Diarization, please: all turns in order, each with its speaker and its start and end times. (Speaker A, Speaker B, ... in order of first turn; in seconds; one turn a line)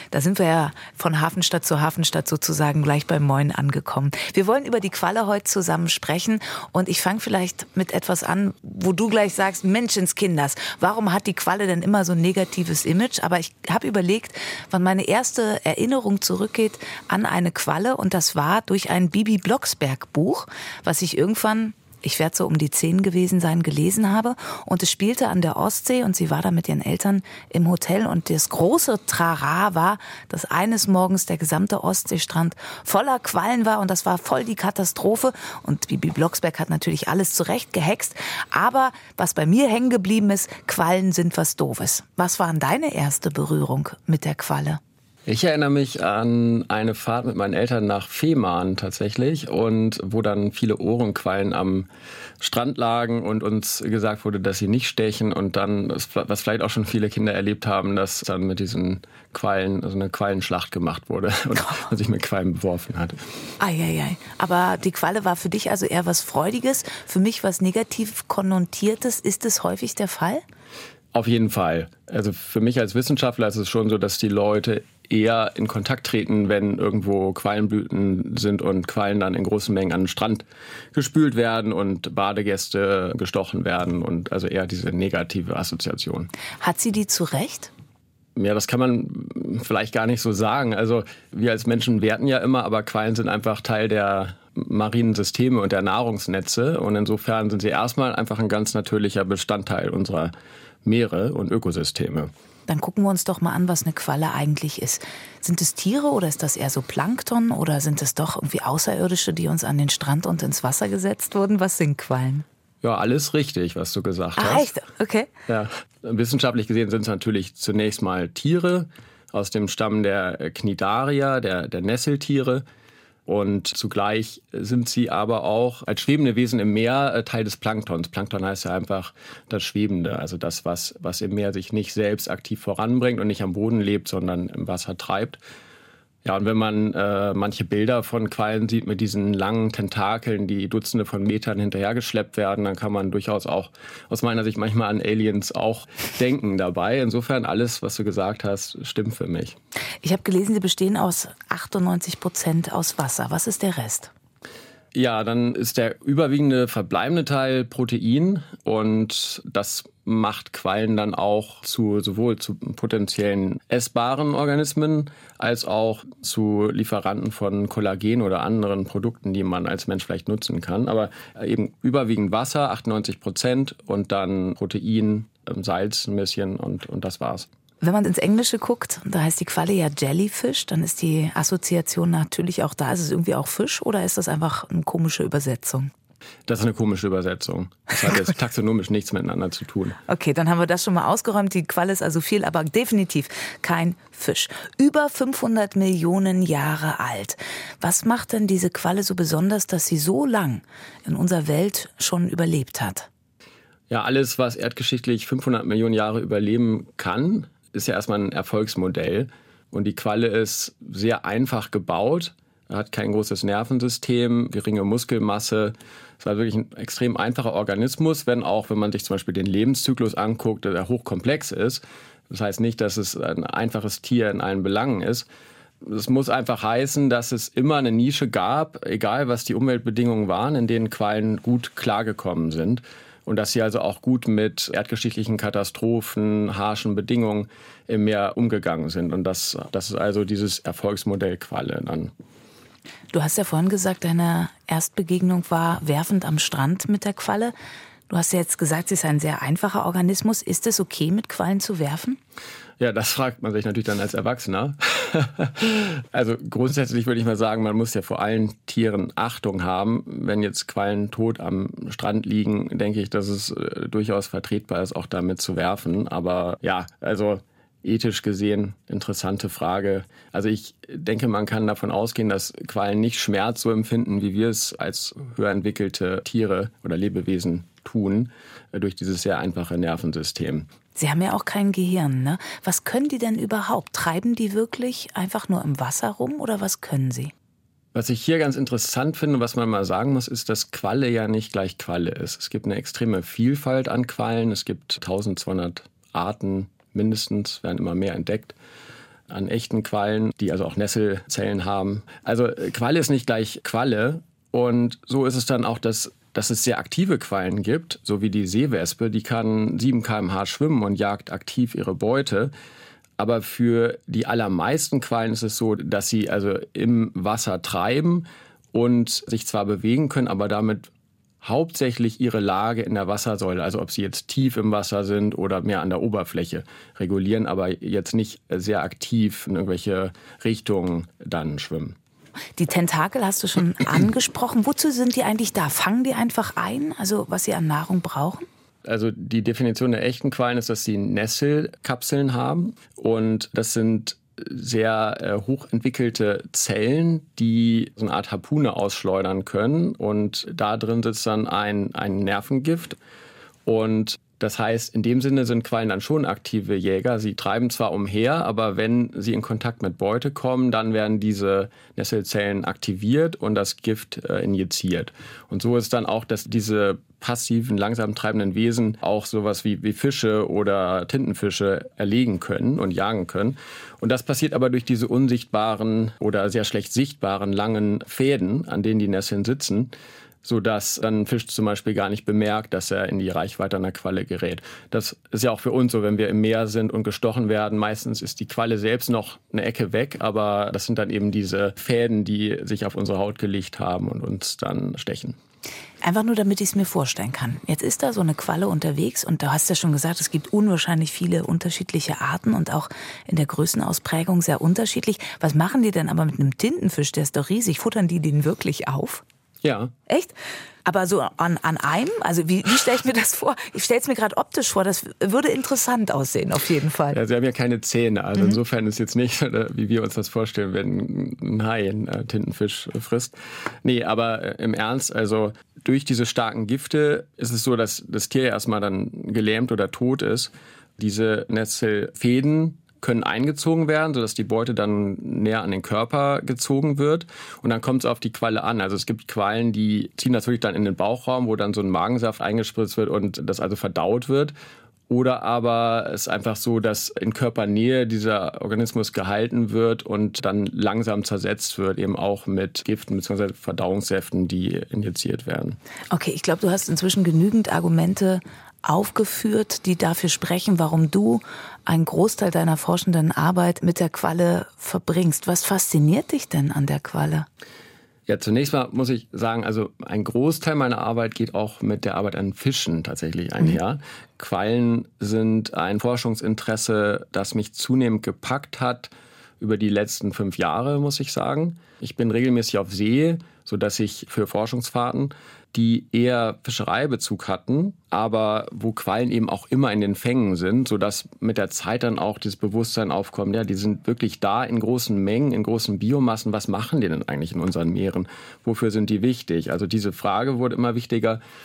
Speaker A: 0.1-44.8
Speaker B: 45.3-51.9
Speaker B: 52.4-63.2
Speaker A: 63.6-70.4
Speaker B: 71.1-86.3
Speaker A: 86.6-87.7
Speaker B: 88.4-100.3
Speaker B: 100.8-102.3
Speaker A: 102.7-112.5
Speaker B: 112.8-114.7
Speaker A: 114.4-115.3
Speaker B: 115.5-122.6
Speaker B: 123.3-135.4
Speaker B: 136.2-149.6
Speaker A: 150.0-154.1
Speaker B: 154.9-177.5
Speaker A: 177.8-185.9
Speaker B: 186.5-190.0
Speaker A: 190.1-203.1
Speaker B: 203.9-225.3
Speaker B: 225.8-242.1
Speaker A: 243.1-247.5
Speaker A: 248.1-252.2
Speaker B: 252.8-280.7
Speaker A: 280.9-287.3
Speaker B: 287.9-298.6
Speaker B: 299.3-312.5
Speaker B: 313.2-320.9
Speaker B: 321.4-332.0
Speaker A: 332.6-338.5
Speaker B: 338.9-353.0
Speaker B: 353.7-379.9
Speaker B: 380.4-395.4
Speaker A: 396.0-409.2
Speaker B: 409.6-409.9
Speaker A: 410.1-410.3
Speaker A: 410.9-417.2
Speaker B: 417.1-444.5
Speaker B: 445.1-455.8
Speaker A: 456.1-467.5
Speaker B: 468.3-501.4